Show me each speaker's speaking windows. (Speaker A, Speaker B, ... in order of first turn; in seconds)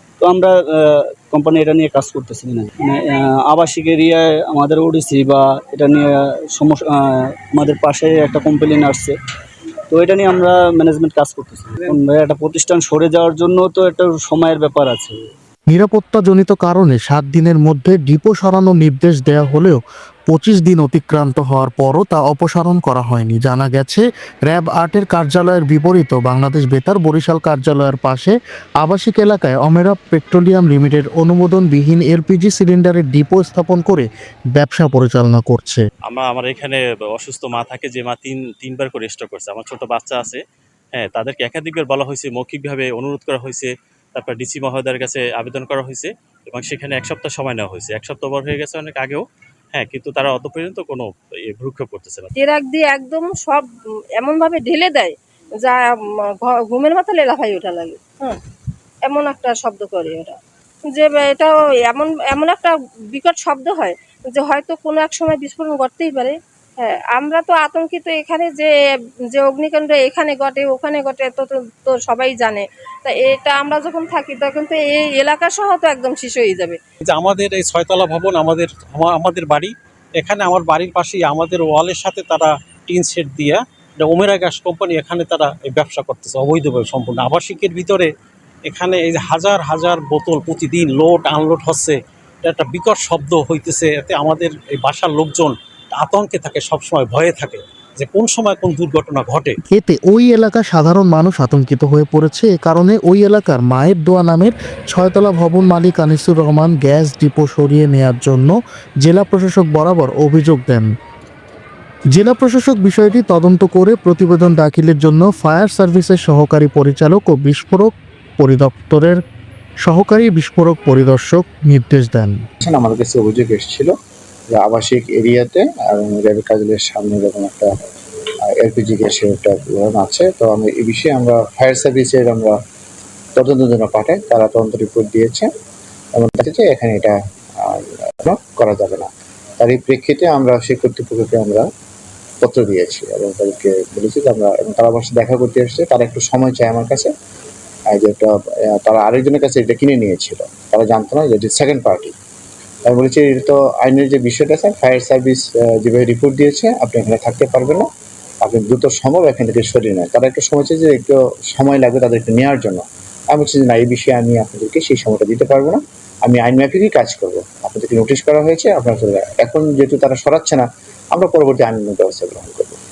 Speaker A: 0.2-9.2, 9.9-15.3
Speaker B: 15.7-35.8, 99.7-110.9, 112.1-119.2, 119.8-122.4
Speaker C: 36.1-40.4, 40.9-49.2, 49.8-52.3
Speaker D: 52.4-53.7, 54.2-58.4, 59.1-68.7, 69.3-76.8
Speaker E: 77.1-88.1, 88.7-99.6
Speaker F: 122.6-123.9, 124.5-127.7, 128.5-132.6, 133.4-135.5, 136.2-141.7, 142.4-147.1, 147.9-152.1, 152.9-157.9, 158.4-172.8